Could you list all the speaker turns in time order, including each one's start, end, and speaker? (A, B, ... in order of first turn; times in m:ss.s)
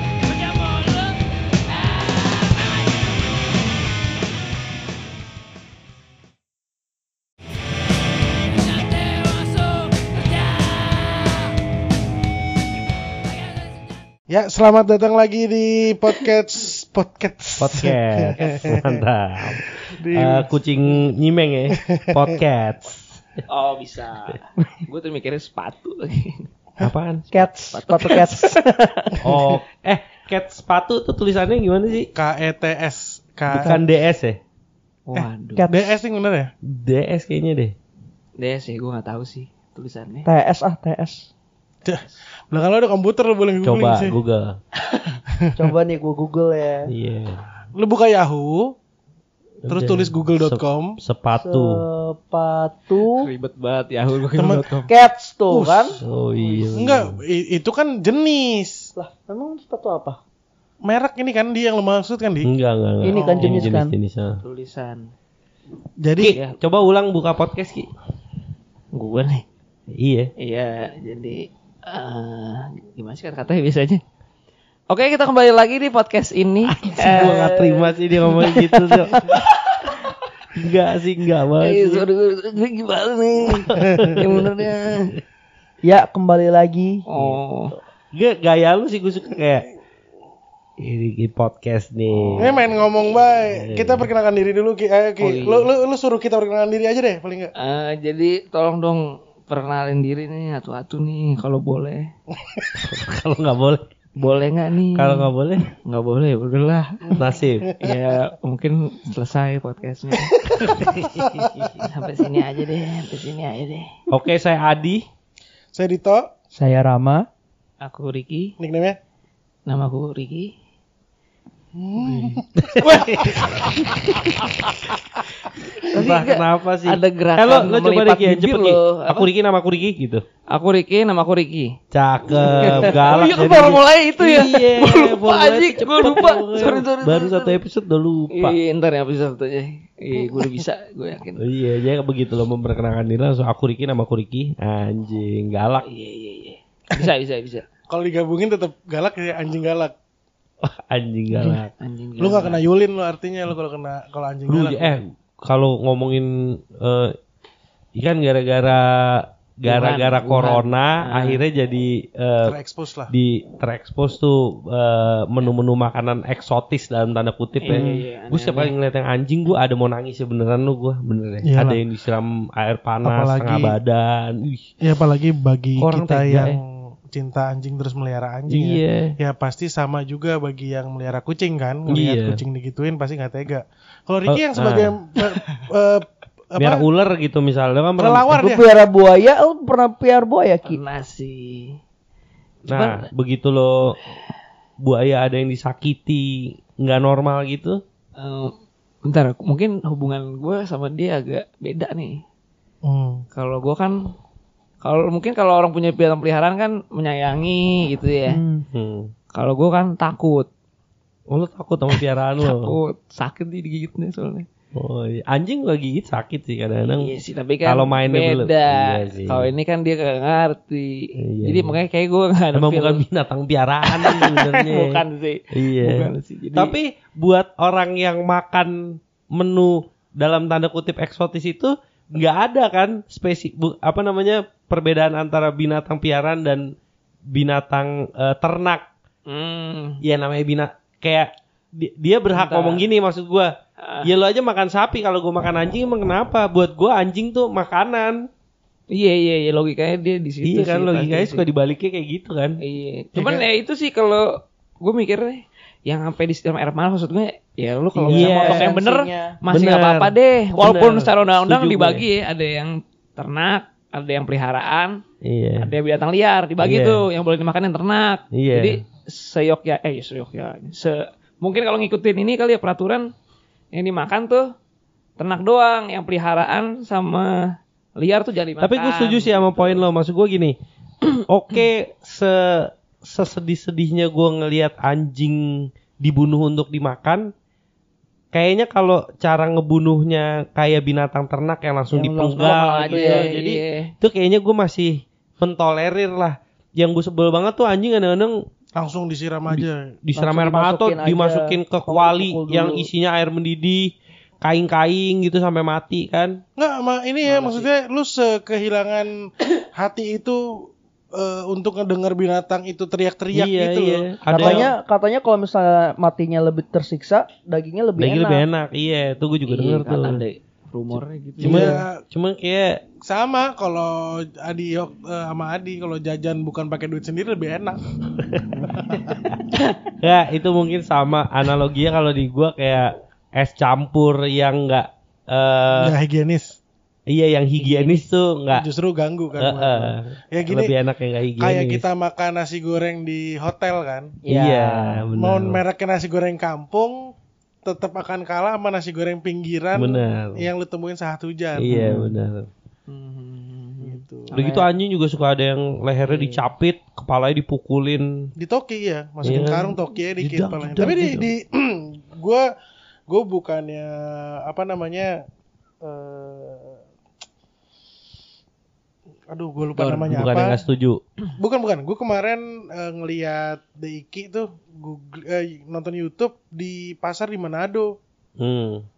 0:00.2-0:02.9 A
0:08.7-0:11.4 A
0:14.3-0:20.5 B
0:17.6-0:23.2 C
0:21.7-0:22.4 B
0:23.5-0:26.5 A
0:26.8-0:27.3 C
0:27.3-0:29.4 D
0:27.7-0:28.7 A
0:29.2-0:32.1 C
0:32.2-0:33.8 B
0:33.5-0:34.4 C
0:35.1-0:35.7 A
0:35.2-0:36.5 B
0:35.6-0:35.9 D
0:36.7-0:37.7 C
0:38.4-0:40.3 A
0:40.3-0:41.3 D
0:41.8-0:44.2 B
0:43.6-0:44.6 C
0:44.9-0:45.2 A
0:45.4-0:45.7 B
0:45.6-0:46.9 D
0:46.9-0:47.4 C
0:47.8-0:48.8 B
0:49.6-0:51.8 C
0:49.7-0:51.0 B
0:51.4-0:53.3 D
0:53.0-0:54.9 A
0:54.4-0:54.9 B
0:54.9-0:56.0 D
0:55.5-0:56.0 B
0:56.0-0:57.2 C
0:56.8-0:58.9 B
0:59.0-1:00.2 D
1:00.8-1:02.5 B
1:02.4-1:04.4 C
1:03.0-1:03.9 D
1:03.1-1:03.7 B
1:04.4-1:05.1 A
1:06.0-1:06.4 B
1:06.2-1:07.9 C
1:06.3-1:06.6 A
1:08.9-1:09.4 A
1:09.9-1:10.3 C
1:10.4-1:14.0 A
1:14.9-1:18.8 A
1:16.9-1:19.4 C
1:19.0-1:19.4 D
1:19.3-1:20.1 A
1:20.5-1:22.0 C
1:21.6-1:25.1 A
1:23.7-1:24.3 C
1:23.8-1:24.2 B
1:25.8-1:27.0 D
1:27.1-1:27.7 A
1:28.1-1:29.7 C
1:30.8-1:32.6 C
1:32.4-1:37.5 B
1:33.5-1:34.1 C
1:35.2-1:35.7 A
1:37.6-1:42.1 A
1:42.4-1:42.8 B
1:42.8-1:43.8 C
1:44.2-1:45.3 A
1:45.0-1:45.7 C
1:45.9-1:47.0 A
1:47.1-1:48.0 B
1:47.2-1:47.7 C
1:47.8-1:51.0 A
1:50.2-1:51.8 B
1:50.7-1:51.8 C
1:51.8-1:53.9 A
1:54.1-1:55.0 C
1:55.7-1:56.3 B
1:56.6-1:57.3 D
1:57.8-1:58.6 A
1:58.6-1:59.0 B
1:59.7-2:00.5 A
2:01.8-2:04.0 B
2:02.6-2:03.6 C
2:02.8-2:04.5 A
2:05.9-2:09.3 A
2:05.9-2:10.2 C
2:10.5-2:11.8 A
2:11.9-2:18.6 C
2:12.3-2:17.6 A
2:18.3-2:21.4 A
2:21.4-2:25.9 C
2:25.8-2:27.6 A
2:27.9-2:29.9 B
2:30.6-2:31.7 C
2:31.4-2:32.6 A
2:32.2-2:35.0 B
2:34.5-2:37.2 C
2:38.0-2:42.6 C
2:39.7-2:41.4 A
2:42.4-2:43.1 B
2:43.1-2:54.7 C
2:47.6-2:48.7 A
2:47.7-2:48.0 D
2:51.4-2:51.8 B
2:53.0-2:53.8 B
2:54.8-3:06.9 B
2:55.8-2:56.5 C
2:58.5-2:59.1 C
3:01.9-3:02.4 C
3:04.3-3:04.9 C
3:06.6-3:08.4 C
3:08.0-3:08.7 B
3:08.4-3:10.8 D
3:10.7-3:11.8 A
3:12.7-3:13.1 A
3:12.7-3:14.0 C
3:14.8-3:17.8 C
3:18.2-3:18.5 A
3:19.0-3:22.2 A
3:22.8-3:23.2 B
3:23.3-3:24.0 A
3:24.8-3:28.4 A
3:28.3-3:28.7 D
3:28.7-3:29.1 C
3:29.3-3:30.5 A
3:31.3-3:32.8 C
3:31.9-3:34.5 A
3:34.8-3:39.5 C
3:36.9-3:43.0 A
3:41.2-3:41.8 C
3:42.5-3:45.0 C
3:43.8-3:46.8 A
3:45.5-3:56.7 C
3:57.3-3:58.8 C
3:59.3-4:00.0 A
4:00.0-4:03.5 C
4:02.3-4:02.8 A
4:03.8-4:04.1 A
4:04.0-4:08.3 C
4:08.9-4:11.4 A
4:10.4-4:12.6 C
4:12.6-4:25.0 A
4:13.2-4:13.5 C
4:18.0-4:19.4 D
4:18.1-4:18.7 C
4:19.5-4:22.0 C
4:25.2-4:25.7 C
4:25.6-4:33.1 A
4:26.6-4:27.0 C
4:28.3-4:28.8 C
4:33.7-4:34.5 A
4:35.2-4:39.8 A
4:38.6-4:40.6 C
4:41.3-4:47.3 C
4:48.3-4:58.4 C
4:51.9-4:53.3 D
4:52.4-4:53.9 A
4:58.8-4:59.9 B
4:59.5-5:03.9 C
5:00.2-5:02.9 D
5:04.4-5:06.4 C
5:06.6-5:14.7 B
5:07.3-5:07.7 A
5:13.3-5:14.7 C
5:14.3-5:18.4 D
5:18.0-5:20.2 C
5:19.5-5:21.8 A
5:21.4-5:22.8 C
5:21.4-5:22.0 B
5:23.0-5:28.0 B
5:28.2-5:35.9 C
5:28.7-5:29.2 B
5:35.8-5:36.6 B
5:37.1-5:38.6 C
5:38.5-5:40.7 B
5:39.4-5:41.8 C
5:41.4-5:44.2 B
5:44.2-5:45.0 D
5:44.3-5:45.6 C
5:45.2-5:47.1 B
5:47.6-5:51.9 B
5:49.8-5:50.4 C
5:51.6-5:52.5 C
5:52.9-5:54.0 A
5:53.8-5:54.3 B
5:54.3-5:58.3 C
5:54.3-5:54.7 D
5:56.0-5:56.4 A
5:58.4-6:02.5 B
5:59.2-6:01.3 C
6:03.1-6:05.2 B
6:05.8-6:06.8 B
6:09.3-6:10.6 B
6:09.8-6:10.2 A
6:10.1-6:11.0 C
6:11.4-6:18.0 B
6:18.4-6:18.9 C